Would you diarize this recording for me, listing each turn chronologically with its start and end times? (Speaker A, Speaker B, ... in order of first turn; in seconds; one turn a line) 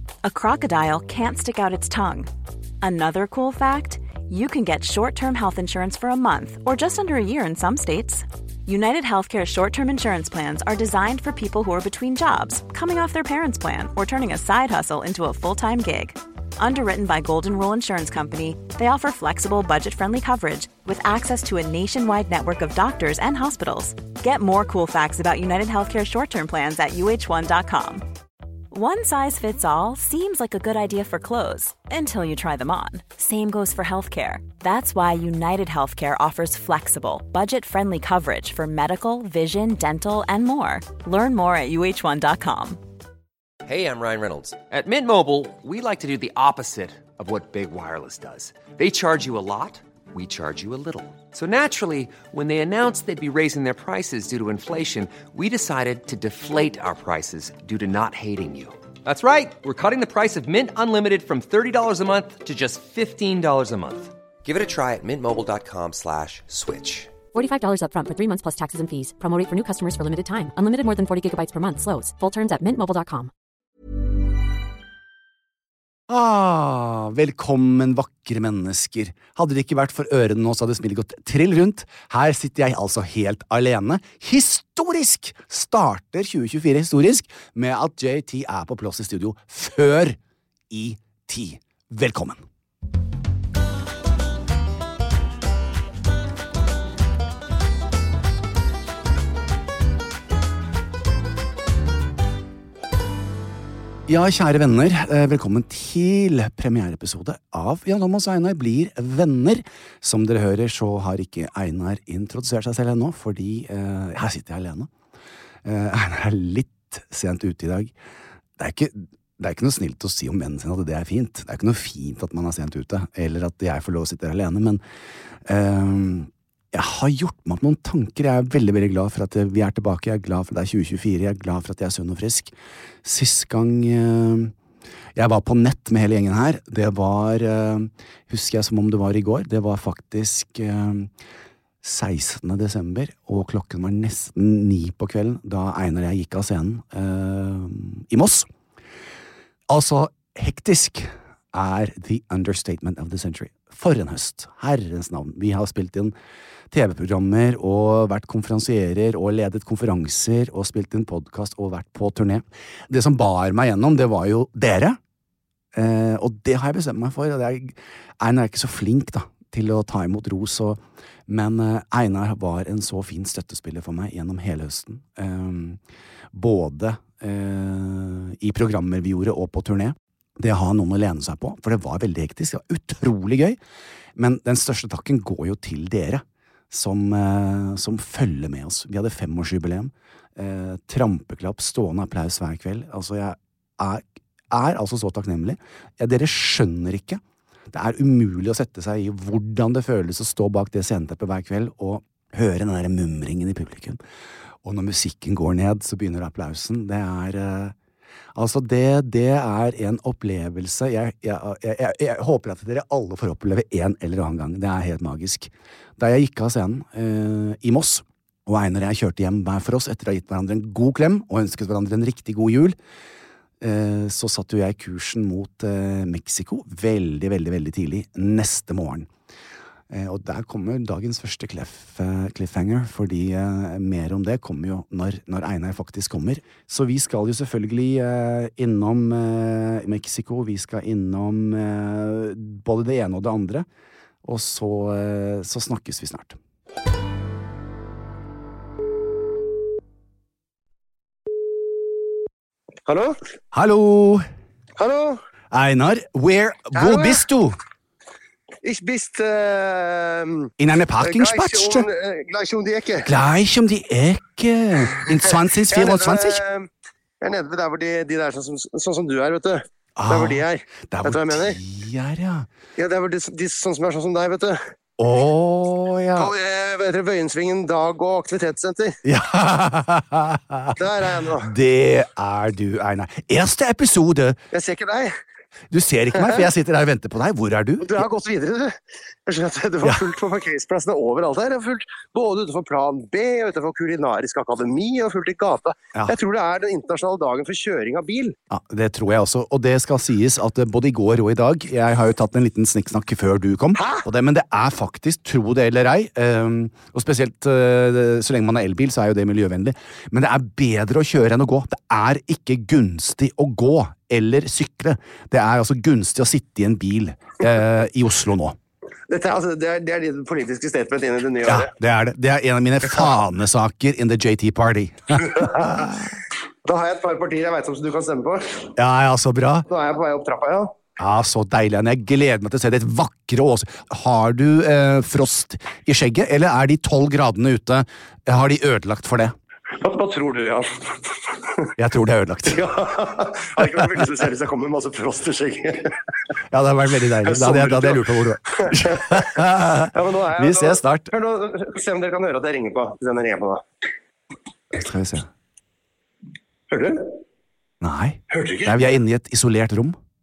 Speaker A: 0.2-2.3
Speaker A: 2.8-28.0
Speaker A: 28.7-42.8
Speaker B: 43.6-67.1
Speaker C: 67.3-73.3
Speaker D: 76.1-90.2
Speaker D: 90.7-92.4
Speaker D: 104.1-114.9
Speaker D: 115.6-117.9
Speaker D: 118.6-124.8
Speaker D: 125.4-134.5
Speaker D: 135.1-141.1
Speaker D: 141.8-148.5
Speaker D: 149.7-156.1
Speaker D: 156.7-165.0
Speaker D: 165.7-175.8
Speaker D: 176.3-183.6
Speaker D: 184.2-204.0
Speaker D: 204.6-207.7
Speaker D: 208.3-222.8
Speaker D: 223.6-229.1
Speaker D: 229.9-243.7
Speaker D: 244.2-246.4
Speaker E: 252.8-253.2
Speaker D: 253.5-254.2
Speaker E: 254.8-255.2
Speaker D: 255.5-257.6
Speaker E: 256.7-257.2
Speaker E: 258.6-263.1
Speaker D: 260.6-261.9
Speaker D: 263.0-266.4
Speaker E: 265.3-266.7
Speaker E: 267.2-271.6
Speaker D: 269.9-272.5
Speaker E: 272.8-274.6
Speaker D: 275.0-276.3
Speaker E: 276.1-279.0
Speaker D: 279.0-284.4
Speaker E: 280.8-281.5
Speaker E: 284.5-285.1
Speaker D: 285.7-288.1
Speaker E: 286.1-286.4
Speaker E: 287.8-298.3
Speaker D: 289.8-290.1
Speaker D: 298.5-318.6
Speaker E: 303.8-304.0
Speaker E: 319.1-321.7
Speaker D: 321.4-325.9
Speaker E: 325.3-326.1
Speaker E: 326.6-328.7
Speaker D: 328.8-329.7
Speaker E: 329.7-330.7
Speaker D: 331.0-339.4
Speaker E: 339.8-341.7
Speaker D: 341.8-342.6
Speaker E: 342.5-345.9
Speaker D: 343.6-343.8
Speaker D: 346.5-351.1
Speaker E: 347.2-349.4
Speaker E: 349.9-353.6
Speaker D: 354.7-355.3
Speaker E: 356.7-357.1
Speaker D: 357.8-360.0
Speaker E: 358.3-358.8